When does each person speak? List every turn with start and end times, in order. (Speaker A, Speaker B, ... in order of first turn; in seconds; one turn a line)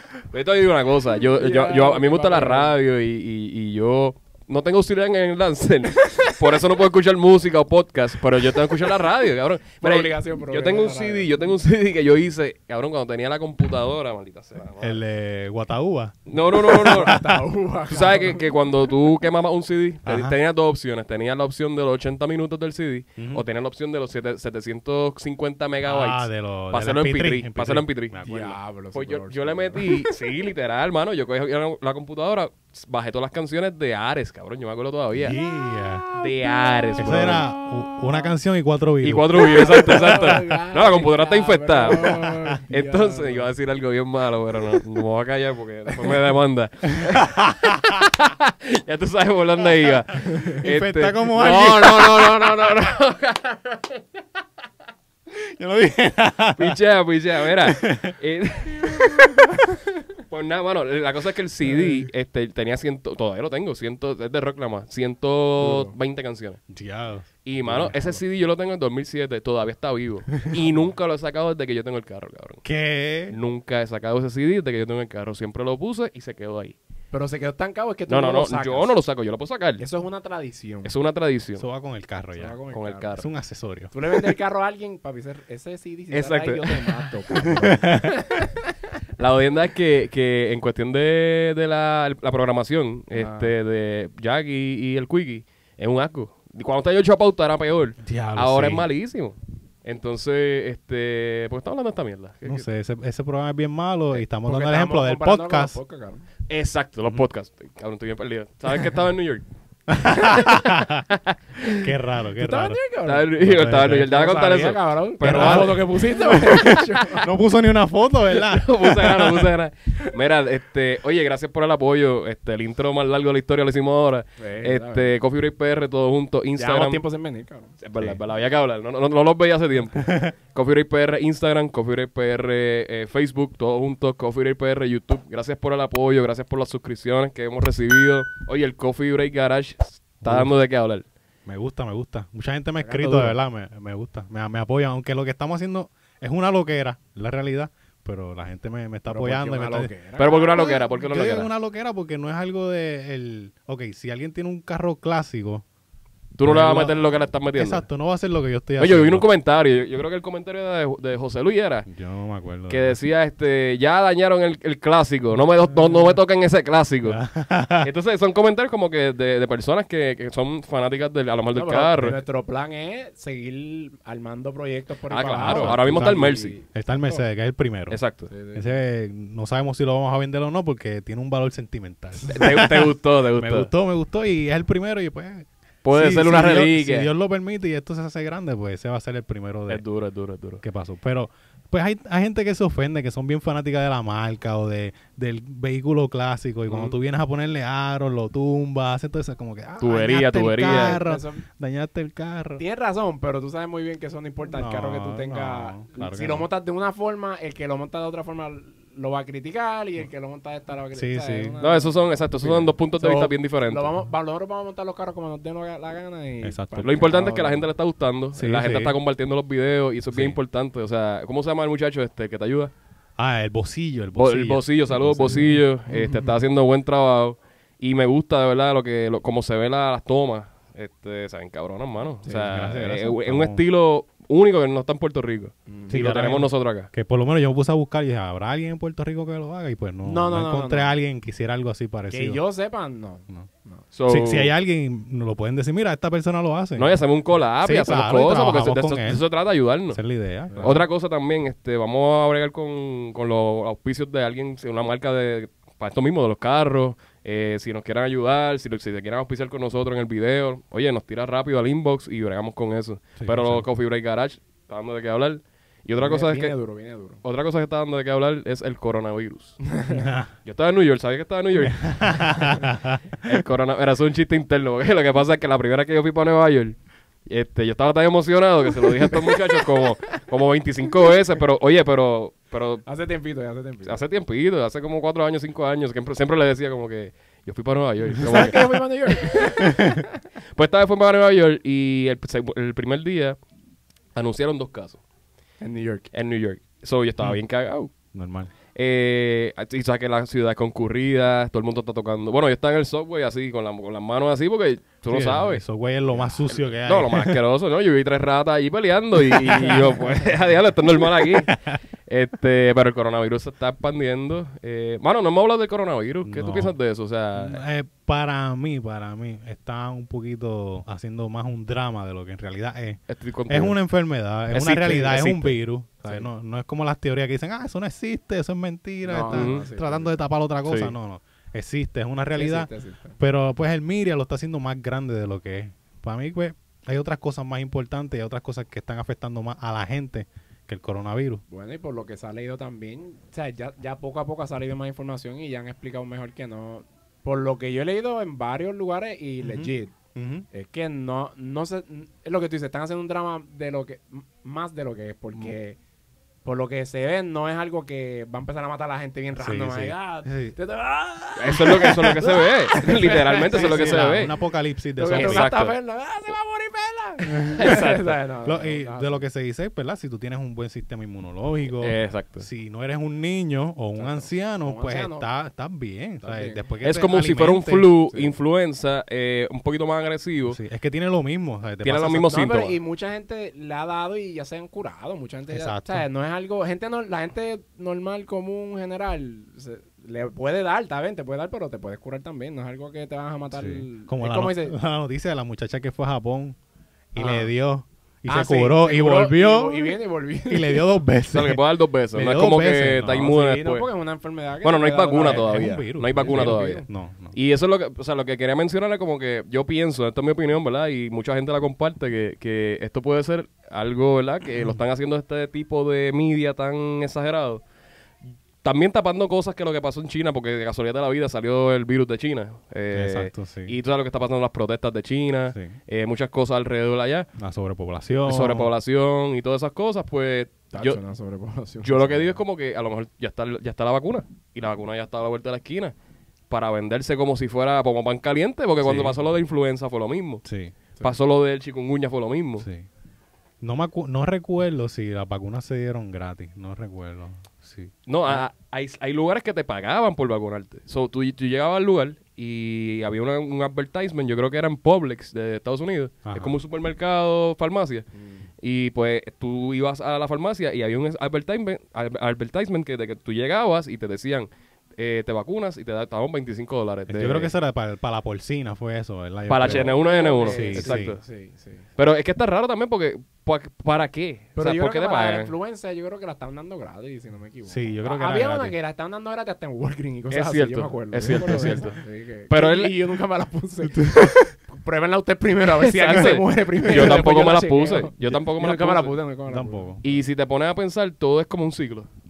Speaker A: 0.3-15.0
Speaker B: 1.3-2.7
Speaker B: 9.8-11.3
Speaker C: 14.8-17.2
Speaker A: 16.3-17.2
Speaker B: 16.7-18.5
Speaker A: 17.9-28.2
Speaker C: 20.1-20.4
Speaker C: 23.2-23.4
Speaker C: 25.9-28.5
Speaker B: 28.2-30.1
Speaker A: 28.9-35.4
Speaker C: 35.1-36.1
Speaker A: 36.1-37.5
Speaker C: 37.0-40.2
Speaker A: 39.0-54.0
Speaker B: 39.3-43.5
Speaker C: 42.1-42.5
Speaker C: 47.0-47.9
Speaker B: 50.2-50.5
Speaker C: 50.6-52.6
Speaker C: 55.3-56.8
Speaker A: 56.6-59.5
Speaker C: 57.4-58.2
Speaker C: 58.8-59.4
Speaker A: 60.3-66.6
Speaker B: 65.6-65.9
Speaker C: 66.7-67.9
Speaker A: 67.4-72.6
Speaker B: 67.7-68.2
Speaker C: 72.6-73.3
Speaker A: 73.3-76.8
Speaker B: 77.1-78.9
Speaker A: 78.1-79.8
Speaker B: 79.8-80.9
Speaker A: 80.8-81.6
Speaker C: 81.6-82.6
Speaker B: 82.3-83.1
Speaker A: 82.7-83.2
Speaker C: 83.2-83.9
Speaker B: 83.9-88.6
Speaker A: 86.1-87.1
Speaker C: 87.5-88.2
Speaker A: 89.2-102.7
Speaker B: 93.1-93.5
Speaker C: 98.0-98.9
Speaker C: 102.4-105.8
Speaker B: 104.4-106.3
Speaker A: 106.5-109.4
Speaker C: 109.9-111.0
Speaker A: 110.2-111.8
Speaker C: 111.7-112.8
Speaker B: 112.4-113.3
Speaker A: 113.0-116.8
Speaker C: 113.4-114.1
Speaker B: 113.9-117.3
Speaker C: 115.2-119.5
Speaker A: 118.3-127.0
Speaker B: 124.4-125.1
Speaker B: 126.5-127.7
Speaker A: 127.8-141.0
Speaker C: 130.0-130.3
Speaker C: 140.2-140.5
Speaker C: 141.5-149.9
Speaker B: 142.8-143.3
Speaker B: 149.1-150.7
Speaker A: 150.2-151.5
Speaker C: 150.4-155.7
Speaker A: 156.4-157.8
Speaker C: 156.4-159.3
Speaker A: 158.8-161.9
Speaker C: 161.9-163.0
Speaker A: 162.7-167.2
Speaker C: 167.0-167.9
Speaker A: 167.8-172.2
Speaker B: 171.5-177.2
Speaker A: 175.1-176.5
Speaker C: 175.4-178.0
Speaker A: 177.9-178.3
Speaker B: 178.3-178.7
Speaker C: 178.5-189.8
Speaker A: 182.3-183.7
Speaker A: 185.8-187.1
Speaker A: 189.7-190.6
Speaker C: 190.6-202.6
Speaker A: 196.7-196.9
Speaker A: 199.8-201.0
Speaker B: 200.6-201.4
Speaker B: 202.6-217.7
Speaker C: 204.5-206.5
Speaker C: 210.9-211.5
Speaker A: 211.6-213.9
Speaker C: 216.4-217.1
Speaker A: 216.8-222.7
Speaker C: 218.3-219.0
Speaker C: 220.1-220.4
Speaker C: 223.2-225.6
Speaker A: 224.2-236.9
Speaker B: 225.5-226.4
Speaker C: 232.3-233.6
Speaker B: 235.7-236.0
Speaker C: 235.9-242.4
Speaker B: 240.0-240.9
Speaker B: 242.1-243.8
Speaker A: 243.9-244.5
Speaker C: 244.1-247.0
Speaker A: 246.8-250.0
Speaker C: 247.6-249.2
Speaker C: 249.9-250.8
Speaker B: 250.5-250.8
Speaker A: 250.6-266.5
Speaker C: 263.2-263.6
Speaker B: 266.0-267.2
Speaker A: 267.2-269.6
Speaker B: 269.7-270.1
Speaker C: 269.9-270.3
Speaker A: 270.4-272.4
Speaker C: 271.6-273.0
Speaker A: 273.2-282.9
Speaker B: 279.1-279.6
Speaker B: 282.9-284.0
Speaker A: 283.9-289.4
Speaker B: 288.2-290.2
Speaker C: 289.7-290.0
Speaker A: 290.5-293.4
Speaker A: 294.1-295.0
Speaker B: 295.6-296.1
Speaker A: 296.1-297.9
Speaker C: 298.1-298.5
Speaker A: 298.7-305.6
Speaker C: 305.1-307.4
Speaker A: 306.2-317.6
Speaker C: 309.2-310.0
Speaker C: 311.0-311.4
Speaker C: 316.2-316.8
Speaker C: 317.3-341.4
Speaker A: 323.1-323.8
Speaker A: 324.5-325.6
Speaker B: 329.0-330.1
Speaker A: 329.2-329.6
Speaker A: 330.6-330.9
Speaker B: 332.3-333.2
Speaker B: 341.5-349.9
Speaker C: 349.4-350.4
Speaker B: 350.5-355.8
Speaker B: 356.4-364.2
Speaker C: 359.4-360.6
Speaker A: 361.4-364.3
Speaker C: 363.5-365.5
Speaker B: 365.0-369.2
Speaker A: 365.1-365.8
Speaker C: 367.4-367.8
Speaker A: 367.6-368.2
Speaker C: 368.4-377.9
Speaker A: 371.8-372.4
Speaker B: 373.9-375.3
Speaker B: 376.2-376.6
Speaker A: 376.8-380.6
Speaker C: 380.5-382.3
Speaker A: 381.8-382.8
Speaker B: 382.3-394.8
Speaker C: 385.5-386.1
Speaker C: 393.5-396.6
Speaker C: 397.1-399.9
Speaker B: 397.1-397.5
Speaker B: 398.3-400.9
Speaker C: 400.5-401.6
Speaker A: 401.3-403.9
Speaker C: 402.1-403.3
Speaker B: 403.1-406.9
Speaker A: 404.6-417.6
Speaker C: 405.1-407.4
Speaker A: 418.6-427.3
Speaker C: 422.9-423.8
Speaker C: 427.4-428.7
Speaker A: 428.2-431.0
Speaker B: 430.7-432.4
Speaker A: 431.8-435.9
Speaker A: 436.5-440.4
Speaker C: 438.8-439.1
Speaker C: 440.4-440.7
Speaker A: 441.0-442.7
Speaker C: 442.6-442.9
Speaker C: 443.6-448.4
Speaker A: 448.1-458.0
Speaker C: 456.2-456.6
Speaker B: 458.1-458.5
Speaker A: 458.6-467.5
Speaker C: 467.1-471.1
Speaker A: 469.5-471.2
Speaker B: 469.6-471.9
Speaker A: 472.0-475.5
Speaker B: 474.6-489.9
Speaker C: 477.7-478.7
Speaker A: 480.3-482.0
Speaker C: 481.3-481.8
Speaker A: 482.5-483.0
Speaker A: 485.8-489.1
Speaker C: 489.5-490.0
Speaker A: 490.0-492.1